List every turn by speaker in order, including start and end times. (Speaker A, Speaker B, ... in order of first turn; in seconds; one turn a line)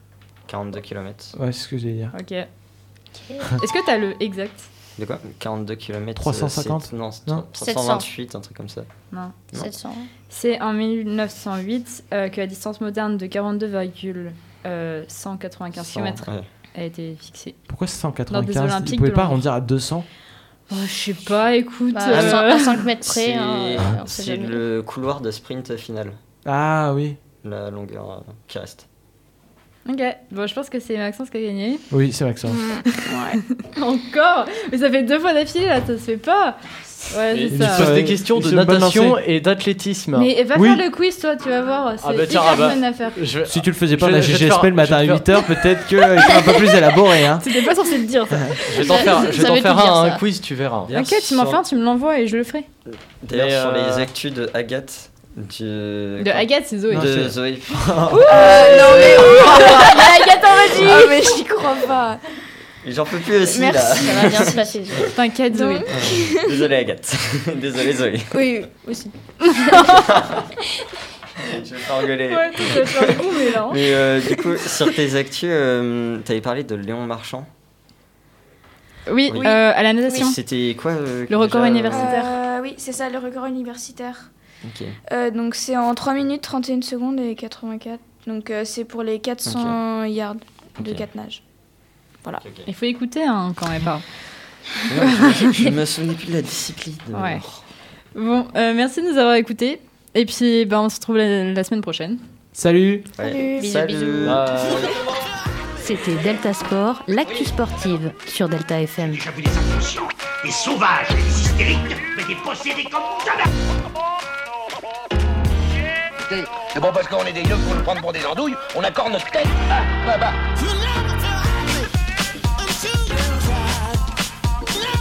Speaker A: 0.5-1.4
Speaker B: 1.4-2.1
Speaker C: 2.1-2.5
Speaker D: 3.2-3.6
Speaker C: 3.6-4.7
Speaker A: 5.0-8.9
Speaker B: 6.2-7.4
Speaker D: 7.6-8.1
Speaker D: 9.5-10.1
Speaker C: 10.3-17.6
Speaker A: 15.8-16.5
Speaker B: 17.7-20.1
Speaker C: 18.3-19.5
Speaker C: 20.7-22.8
Speaker D: 21.9-24.6
Speaker A: 22.1-22.5
Speaker A: 23.0-26.2
Speaker B: 26.4-27.2
Speaker A: 27.4-28.9
Speaker C: 29.9-31.8
Speaker B: 31.9-32.6
Speaker E: 32.5-33.4
Speaker C: 33.0-37.9
Speaker F: 37.3-40.3
Speaker B: 37.5-39.2
Speaker C: 40.1-43.2
Speaker B: 40.5-40.8
Speaker F: 42.0-45.5
Speaker B: 43.5-47.5
Speaker C: 47.4-49.3
Speaker F: 48.7-51.0
Speaker D: 49.1-50.2
Speaker A: 50.9-51.6
Speaker C: 50.9-52.7
Speaker A: 52.9-60.0
Speaker F: 53.3-54.1
Speaker C: 56.2-57.1
Speaker B: 56.9-58.3
Speaker C: 58.1-60.0
Speaker E: 58.3-62.2
Speaker A: 60.7-61.0
Speaker C: 60.8-61.1
Speaker A: 62.8-64.6
Speaker E: 63.5-64.6
Speaker D: 63.7-65.1
Speaker C: 65.0-65.9
Speaker E: 65.5-66.6
Speaker A: 65.9-68.5
Speaker E: 68.3-70.0
Speaker C: 69.4-70.1
Speaker A: 69.9-70.5
Speaker A: 71.4-77.5
Speaker C: 72.3-73.8
Speaker C: 79.1-80.4
Speaker A: 79.3-82.2
Speaker C: 81.3-82.4
Speaker E: 81.9-84.3
Speaker A: 84.6-85.0
Speaker E: 85.1-91.4
Speaker A: 89.5-89.8
Speaker A: 90.8-91.1
Speaker A: 92.4-92.7
Speaker C: 92.7-94.1
Speaker A: 94.9-97.7
Speaker C: 95.0-95.7
Speaker C: 97.1-97.4
Speaker C: 98.2-102.2
Speaker B: 102.5-103.1
Speaker A: 103.2-104.5
Speaker E: 103.2-103.7
Speaker D: 103.5-104.4
Speaker F: 104.2-105.0
Speaker G: 105.8-109.2
Speaker H: 109.1-113.5
Speaker H: 116.3-121.0
Speaker H: 122.8-123.8